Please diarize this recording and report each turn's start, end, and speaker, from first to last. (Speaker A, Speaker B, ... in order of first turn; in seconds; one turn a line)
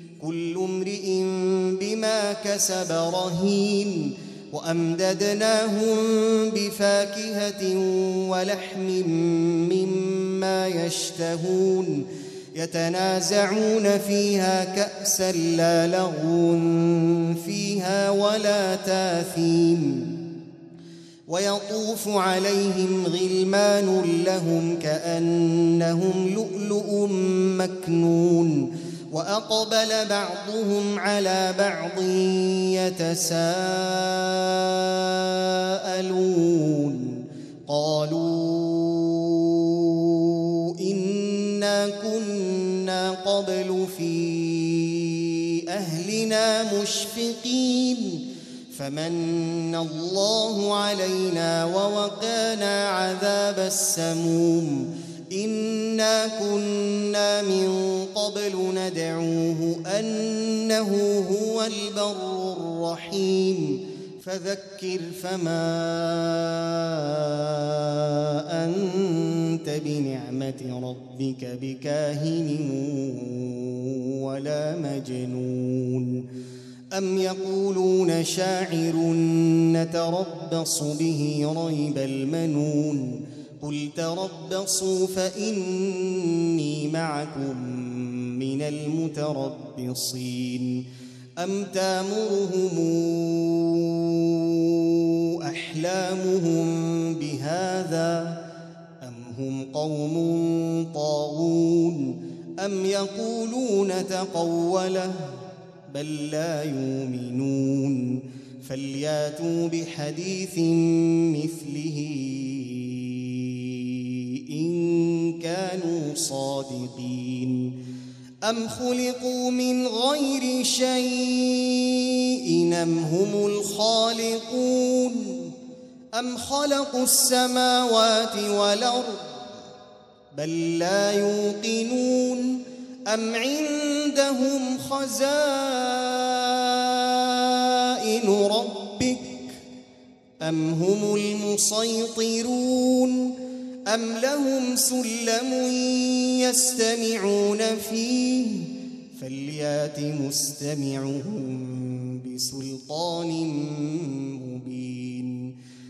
Speaker A: 0.2-20.1
Speaker A: 21.3-76.3
Speaker A: 76.9-90.8
Speaker A: 91.4-98.4
Speaker A: 99.0-105.3
Speaker A: 105.9-117.7
Speaker A: 118.4-125.5
Speaker A: 126.1-129.6
Speaker A: 130.3-139.6
Speaker A: 140.4-155.5